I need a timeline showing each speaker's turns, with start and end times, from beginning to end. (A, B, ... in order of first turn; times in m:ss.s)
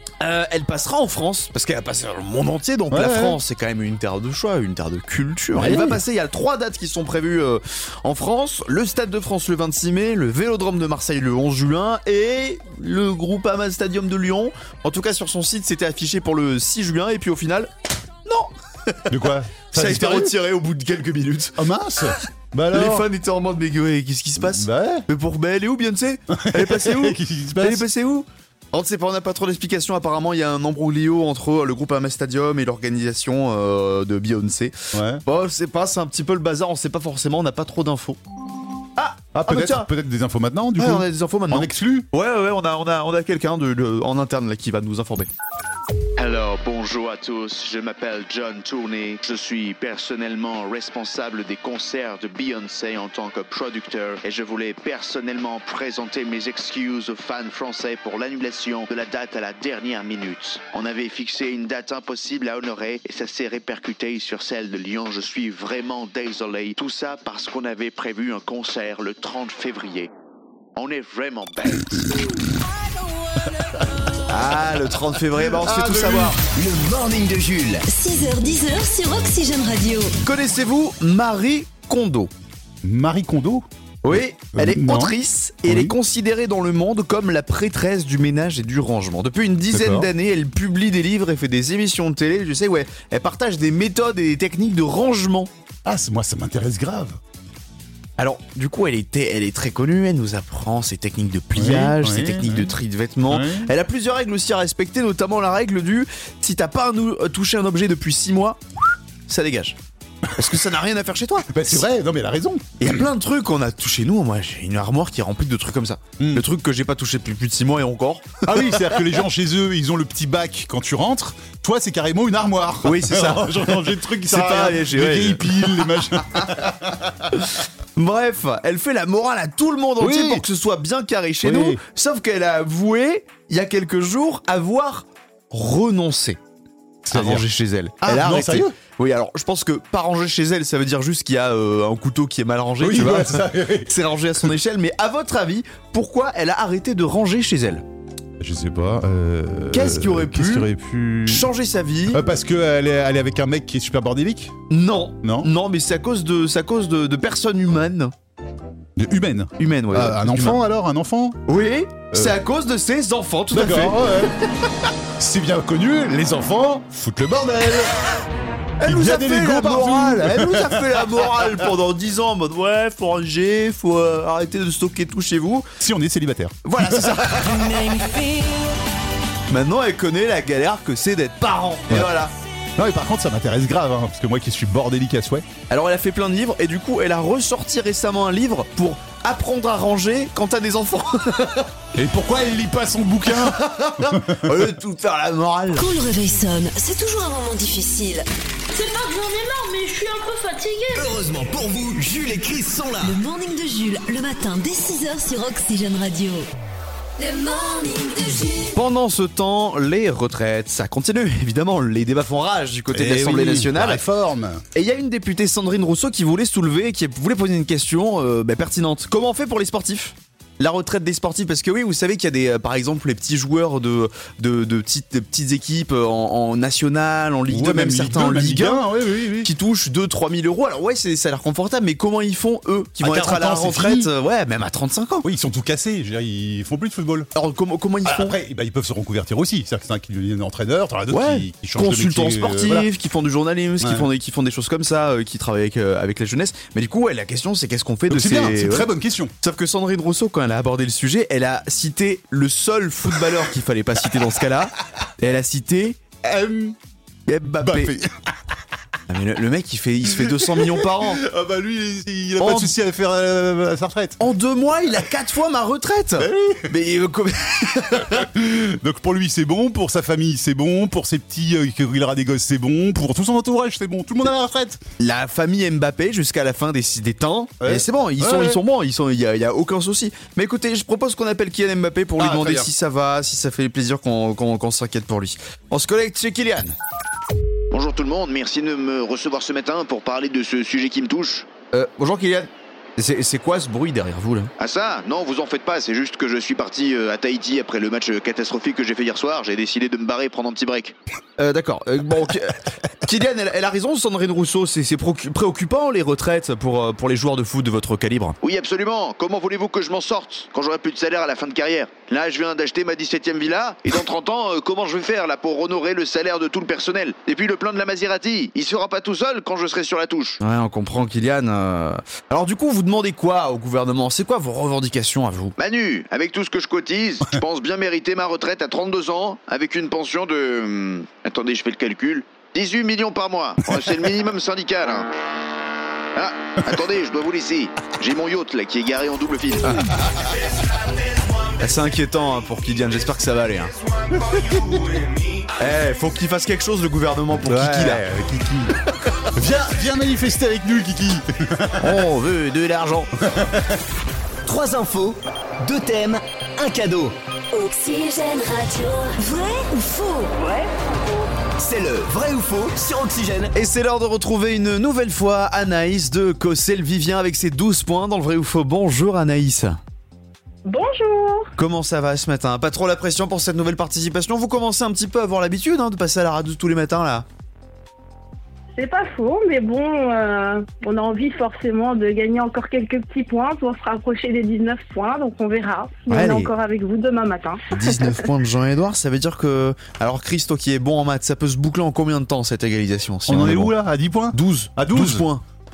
0:00.2-0:17.7 A
0:02.9-0:03.4 B
0:05.5-0:06.0 B
0:18.2-0:19.2 A
0:19.1-0:20.3 B
0:19.7-0:21.6 A
0:21.6-0:23.1 B
0:22.7-0:38.2 A
0:24.4-0:25.0 B
0:26.3-0:27.8 B
0:34.9-0:35.2 B
0:39.0-0:39.9 A
0:39.3-0:42.1 B
0:40.8-0:45.3 A
0:46.2-1:10.1 C
1:10.8-1:12.1 C
1:14.3-1:16.4 A
1:15.3-1:16.4 B
1:16.4-1:17.9 D
1:17.9-1:20.1 E
1:20.2-1:22.3 A
1:22.8-1:25.9 B
1:24.0-1:35.5 A
1:29.7-1:30.1 B
1:35.8-1:37.2 B
1:38.2-1:48.6 A
1:41.5-1:42.7 B
1:43.3-1:43.7 B
1:49.3-1:49.8 A
1:50.3-1:51.8 A
1:51.5-1:53.0 B
1:52.8-1:59.0 A
1:56.2-1:56.4 B
1:58.4-2:07.4 B
2:02.8-2:06.7 A
2:07.3-2:16.4 A
2:10.0-2:10.4 B
2:11.4-2:11.8 B
2:17.0-2:17.4 B
2:17.1-2:27.8 A
2:18.0-2:18.7 B
2:22.8-2:24.5 B
2:28.4-2:31.5 B
2:29.7-2:30.7 A
2:31.2-2:32.2 A
2:32.1-2:34.5 B
2:34.7-2:38.1 A
2:35.2-2:35.5 B
2:39.0-2:41.5 B
2:39.6-2:40.6 A
2:41.5-2:44.1 A
2:42.1-2:42.4 B
2:43.5-2:44.3 B
2:44.8-2:48.0 B
2:48.8-2:55.7 A
2:48.8-2:51.7 B
2:55.8-2:57.7 B
2:56.6-2:58.1 A
2:59.5-3:02.3 A
3:02.8-3:05.4 B
3:05.7-3:11.7 A
3:11.9-3:14.7 B
3:13.3-3:15.9 A
3:15.7-3:18.3 E
3:18.7-3:21.1 F
3:20.9-3:23.2 D
3:23.0-3:26.5 E
3:27.2-3:28.8 E
3:28.7-3:34.0 A
3:32.9-3:34.6 B
3:34.7-3:48.8 A
3:47.5-3:49.5 B
3:49.4-3:55.2 A
3:53.0-3:54.1 B
3:55.2-3:57.3 B
3:57.3-3:58.4 A
3:58.0-4:02.9 B
4:01.1-4:08.9 A
4:03.8-4:04.1 B
4:08.1-4:09.3 B
4:09.4-4:16.0 A
4:16.2-4:16.8 B
4:17.3-4:18.0 A
4:17.6-4:18.1 B
4:19.1-4:21.2 A
4:20.2-4:24.2 B
4:22.4-4:22.7 A
4:24.2-4:28.3 A
4:26.2-4:26.7 B
4:28.1-4:34.8 B
4:35.0-4:46.8 A
4:37.6-4:38.6 B
4:42.2-4:42.7 B
4:47.7-4:51.5 C
4:51.7-4:54.5 A
4:54.6-5:00.9 C
5:01.4-5:08.4 A
5:08.4-5:20.4 C
5:20.4-5:25.5 A
5:25.6-5:35.1 C
5:36.1-5:39.8 C
5:41.6-5:43.7 A
5:44.4-5:44.8 B
5:45.6-5:48.0 A
5:47.4-5:48.7 B
5:49.3-5:52.0 B
5:51.8-5:53.1 A
5:53.2-5:53.8 B
5:54.4-5:59.1 D
5:57.6-5:58.2 E
5:59.1-6:00.3 E
6:00.4-6:03.5 D
6:03.5-6:09.8 A
6:10.6-6:11.5 G
6:11.6-6:17.2 A
6:18.8-6:28.1 G
6:26.1-6:26.5 A
6:27.7-6:33.7 A
6:33.3-6:35.3 B
6:34.3-6:35.4 A